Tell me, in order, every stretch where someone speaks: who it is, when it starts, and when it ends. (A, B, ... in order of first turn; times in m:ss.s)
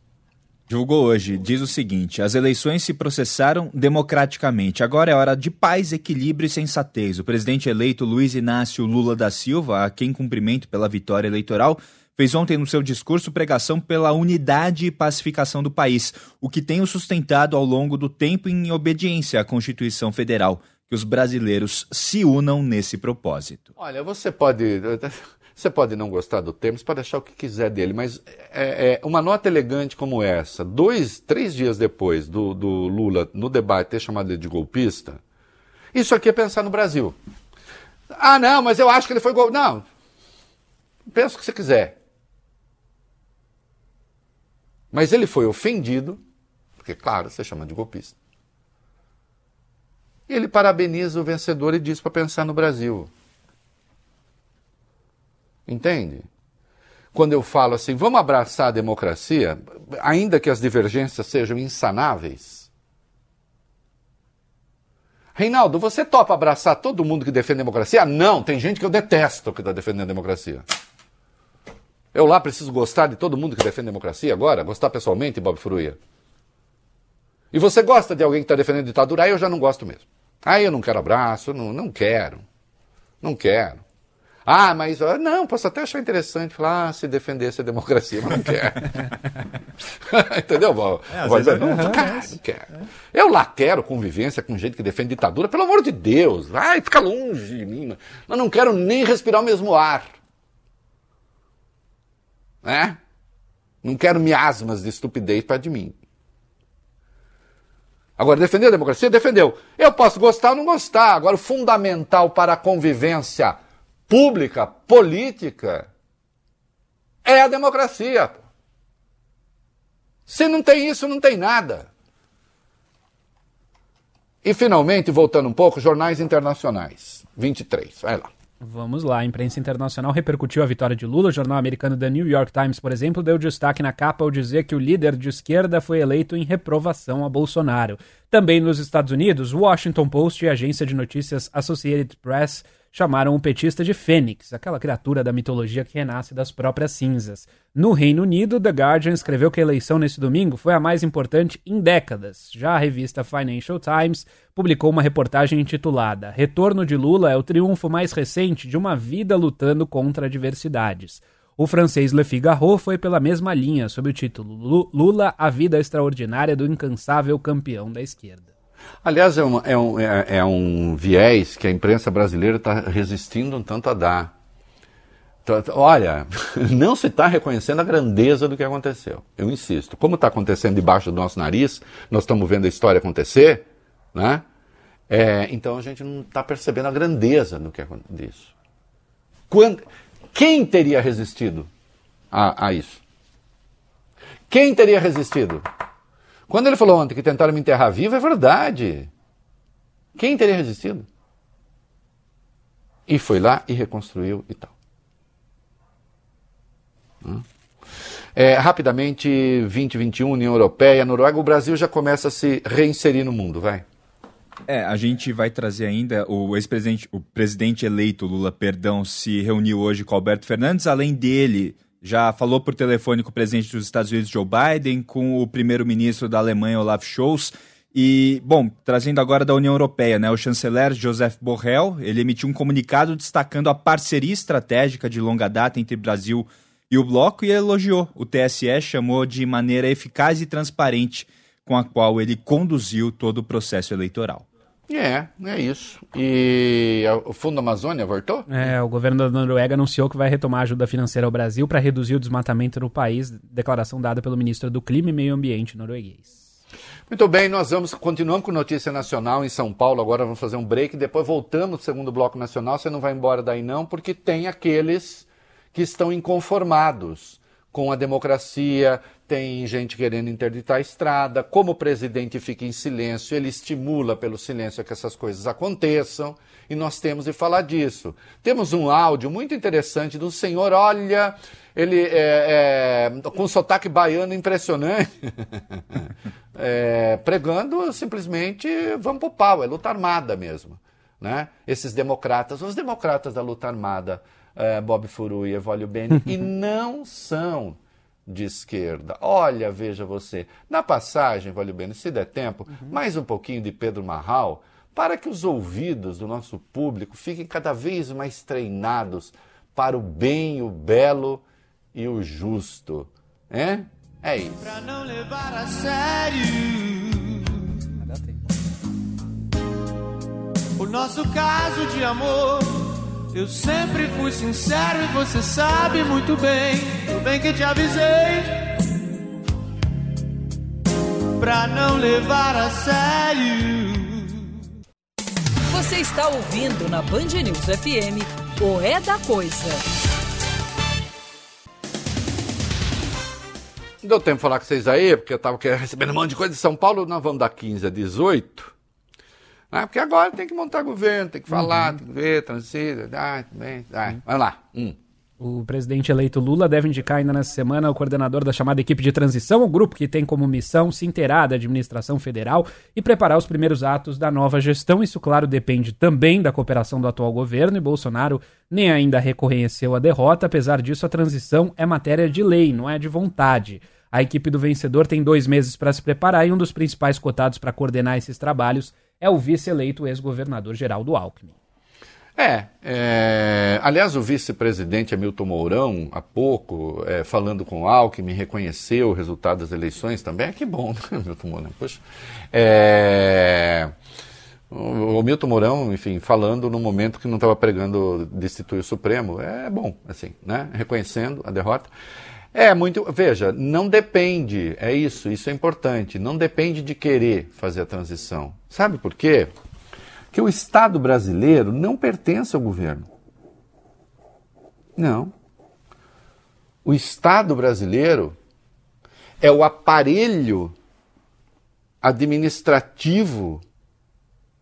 0:00.7-0:23.7 A
0:23.8-0:35.2 B
0:35.9-0:37.2 B
0:38.1-0:39.8 B
0:41.1-0:42.0 B
0:44.9-0:46.2 B
0:46.8-0:48.2 B
0:50.3-0:53.1 B
0:55.7-0:56.3 B
0:57.1-1:02.7 B
1:05.4-1:10.6 B
1:12.1-1:16.0 B
1:17.5-1:22.4 B
1:23.2-1:23.8 B
1:24.4-1:29.0 B
1:30.0-1:40.1 B
1:31.2-1:32.1 A
1:42.6-1:43.0 B
1:43.8-1:46.0 B
1:48.2-1:55.9 B
1:57.2-1:58.4 B
2:00.3-2:01.9 B
2:04.4-2:08.3 B
2:08.6-2:48.5 C
2:49.0-2:54.3 B
2:55.4-3:04.4 B
3:05.1-3:08.5 B
3:09.5-3:09.8 B
3:10.3-3:11.7 B
3:12.3-3:13.0 B
3:14.5-3:15.6 B
3:16.5-3:19.1 B
3:20.2-3:21.1 B
3:23.1-3:24.7 B
3:28.4-3:33.8 B
3:34.7-4:04.5 A
4:04.9-4:08.5 B
4:08.5-4:16.5 C
4:17.1-4:46.0 B
4:46.6-5:11.4 B
5:11.9-5:14.7 B
5:14.6-5:17.8 D
5:18.0-5:18.4 C
5:20.8-5:28.7 D
5:31.4-5:34.6 D
5:35.7-5:39.8 E
5:44.0-5:48.7 B
5:49.7-5:55.0 B
5:55.4-6:21.5 C
6:22.4-6:33.9 B
6:34.7-6:41.9 B
6:42.5-6:49.5 B
6:50.3-6:53.1 B
6:55.0-6:55.3 B
6:56.8-6:58.4 B
6:59.4-7:00.7 B
7:02.0-7:03.6 B